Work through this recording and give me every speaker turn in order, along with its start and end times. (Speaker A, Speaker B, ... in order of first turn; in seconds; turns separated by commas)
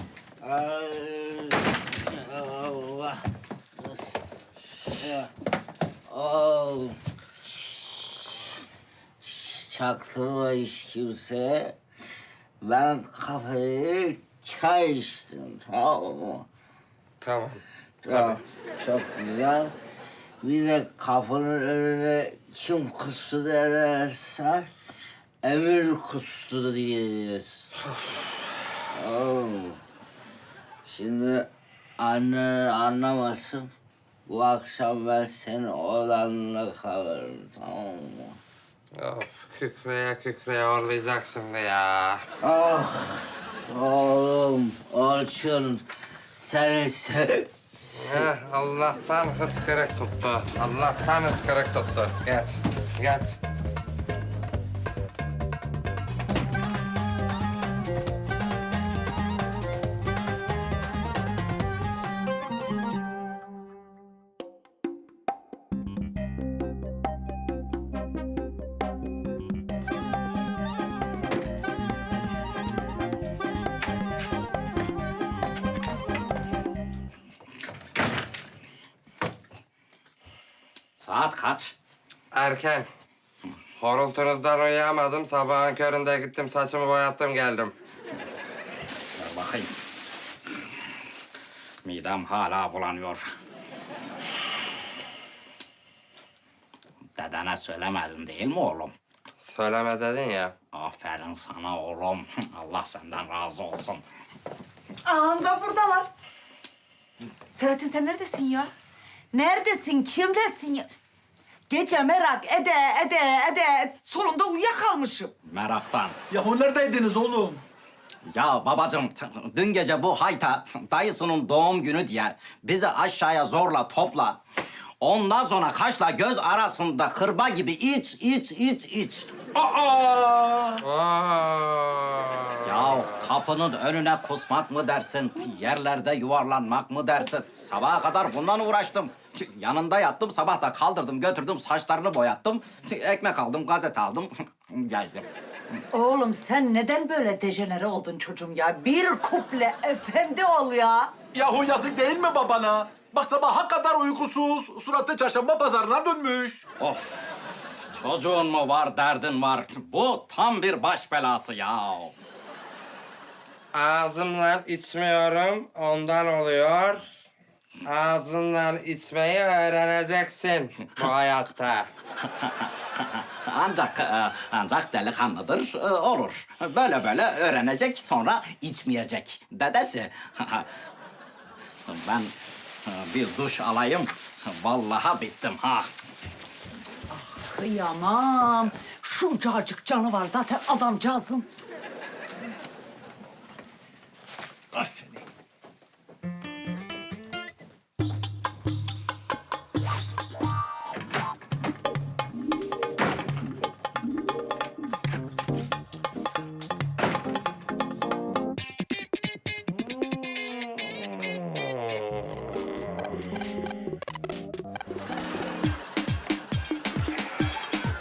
Speaker A: 0.4-3.3, Speaker A: 4.8-5.3, Speaker A: 6.1-7.0, Speaker A: 9.2-11.8, Speaker A: 12.6-16.5, Speaker B: 17.2-18.4, Speaker A: 18.0-19.7, Speaker A: 20.4-24.7, Speaker A: 25.4-27.7, Speaker A: 28.9-29.8, Speaker A: 30.9-33.7, Speaker A: 34.3-38.4, Speaker B: 39.0-42.2, Speaker A: 42.4-47.5, Speaker B: 48.0-53.4, Speaker C: 81.0-81.8, Speaker B: 82.3-82.9, Speaker B: 83.8-87.7, Speaker C: 89.2-89.7, Speaker C: 91.8-93.3, Speaker C: 97.2-98.9, Speaker B: 99.4-100.5, Speaker C: 100.7-104.0, Speaker D: 105.0-106.1, Speaker D: 107.5-108.7, Speaker D: 109.3-110.9, Speaker D: 111.7-115.3, Speaker C: 115.5-116.2, Speaker E: 116.3-117.6, Speaker C: 118.3-124.4, Speaker C: 125.0-129.3, Speaker E: 129.6-130.8, Speaker B: 130.8-133.2, Speaker C: 132.6-145.3, Speaker D: 145.9-151.1, Speaker E: 151.3-156.6, Speaker C: 156.8-162.1, Speaker B: 163.7-167.1, Speaker B: 167.8-171.9, Speaker C: 172.3-180.7, Speaker C: 181.9-182.3, Speaker C: 182.8-185.9, Speaker D: 187.1-191.5, Speaker B: 211.5-212.0